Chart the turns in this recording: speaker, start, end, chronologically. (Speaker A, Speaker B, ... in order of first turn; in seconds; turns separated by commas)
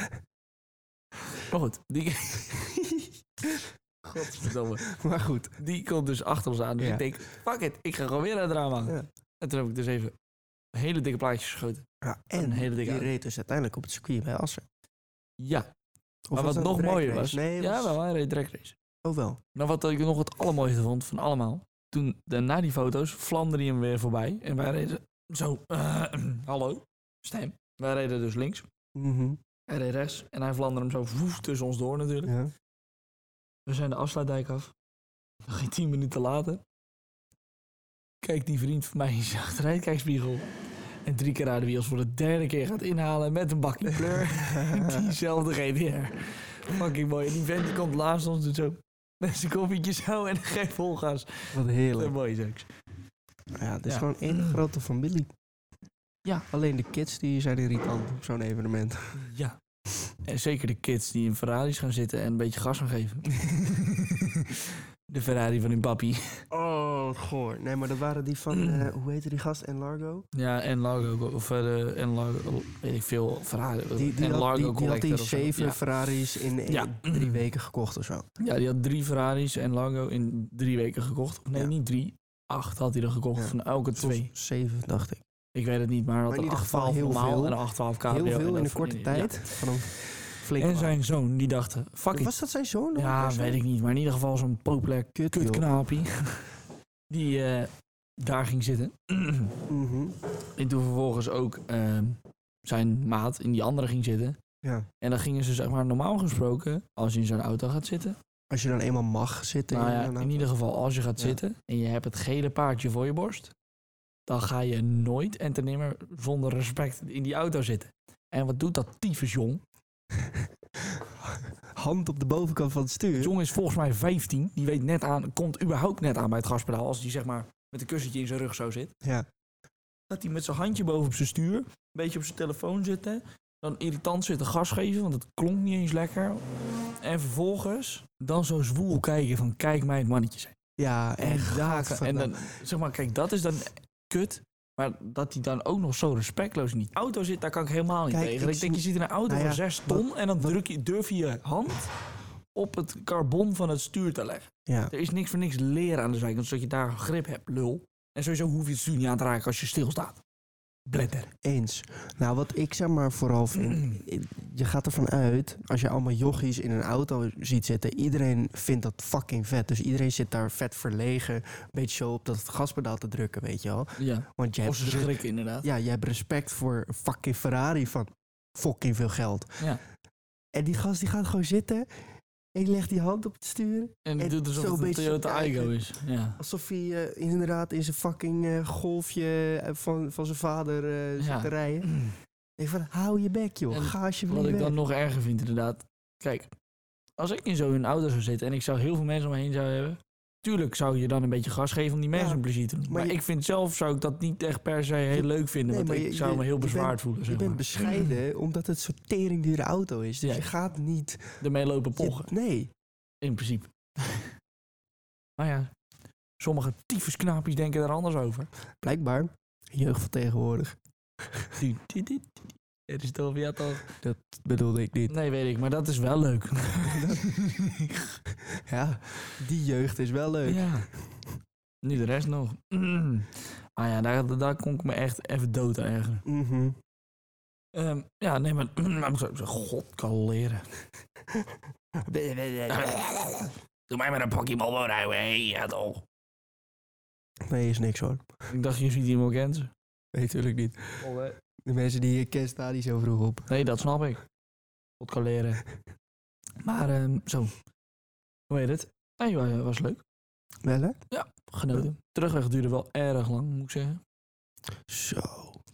Speaker A: 1.4-2.6, Speaker B: 2.7-3.6, Speaker A: 4.1-4.8, Speaker B: 4.2-5.5, Speaker A: 5.6-10.1, Speaker B: 6.8-7.0, Speaker A: 10.7-13.1, Speaker B: 12.0-14.6, Speaker A: 15.4-15.7, Speaker B: 16.3-18.0, Speaker A: 16.3-18.8, Speaker B: 19.0-19.4, Speaker A: 19.5-28.7, Speaker B: 28.9-29.4, Speaker A: 29.7-32.3, Speaker B: 32.2-32.5, Speaker A: 33.6-34.7, Speaker A: 35.4-36.6, Speaker A: 38.2-40.5, Speaker A: 41.0-52.7, Speaker B: 44.1-45.1, Speaker B: 51.5-52.1, Speaker B: 53.6-55.3, Speaker A: 53.9-54.6, Speaker B: 56.5-59.2, Speaker A: 59.2-59.6, Speaker A: 60.2-66.4, Speaker B: 66.5-70.2, Speaker A: 68.5-68.9, Speaker A: 70.3-75.8, Speaker B: 74.0-78.3, Speaker A: 76.7-77.4, Speaker A: 78.4-84.3, Speaker B: 83.3-85.2, Speaker A: 85.5-89.5, Speaker B: 86.3-91.0, Speaker A: 90.6-92.3, Speaker B: 92.1-93.6, Speaker A: 93.0-96.5, Speaker B: 95.2-95.7, Speaker A: 97.1-99.5, Speaker B: 99.7-100.1, Speaker A: 100.6-104.4, Speaker B: 104.6-104.9, Speaker A: 105.0-108.2, Speaker B: 108.5-110.5, Speaker A: 109.7-113.5, Speaker A: 114.3-119.6, Speaker B: 121.0-123.3, Speaker A: 123.1-128.9, Speaker A: 130.1-136.4, Speaker A: 137.0-140.5, Speaker B: 140.8-142.4, Speaker A: 141.2-151.9, Speaker B: 148.1-150.6, Speaker A: 152.5-160.2, Speaker B: 154.7-154.9, Speaker A: 160.9-161.3, Speaker B: 161.0-179.6, Speaker A: 163.5-164.0, Speaker A: 174.0-175.7, Speaker B: 180.5-185.7, Speaker A: 184.0-186.4, Speaker B: 186.4-191.9, Speaker A: 191.2-192.2, Speaker B: 192.6-194.8, Speaker A: 193.7-196.5, Speaker A: 197.2-208.1, Speaker B: 202.1-203.2, Speaker B: 205.1-211.4, Speaker A: 210.2-210.5, Speaker A: 211.4-212.3, Speaker B: 212.0-212.7, Speaker A: 213.2-214.3, Speaker A: 215.4-215.7, Speaker A: 216.4-218.5, Speaker B: 218.8-220.8, Speaker A: 221.6-223.9, Speaker B: 224.0-225.1, Speaker A: 225.1-228.2, Speaker B: 226.8-227.2, Speaker B: 228.5-230.8, Speaker A: 230.4-230.8, Speaker A: 231.8-236.2, Speaker B: 236.2-236.8, Speaker A: 237.7-240.7, Speaker B: 242.0-243.0, Speaker A: 242.7-246.0, Speaker B: 247.5-248.3, Speaker A: 248.5-249.7, Speaker B: 250.1-251.0, Speaker A: 251.0-251.4, Speaker B: 251.7-253.5, Speaker A: 253.5-254.2, Speaker A: 255.0-255.6, Speaker A: 256.6-257.5, Speaker A: 258.5-260.0, Speaker B: 260.6-261.0, Speaker A: 261.1-264.0, Speaker B: 264.9-265.6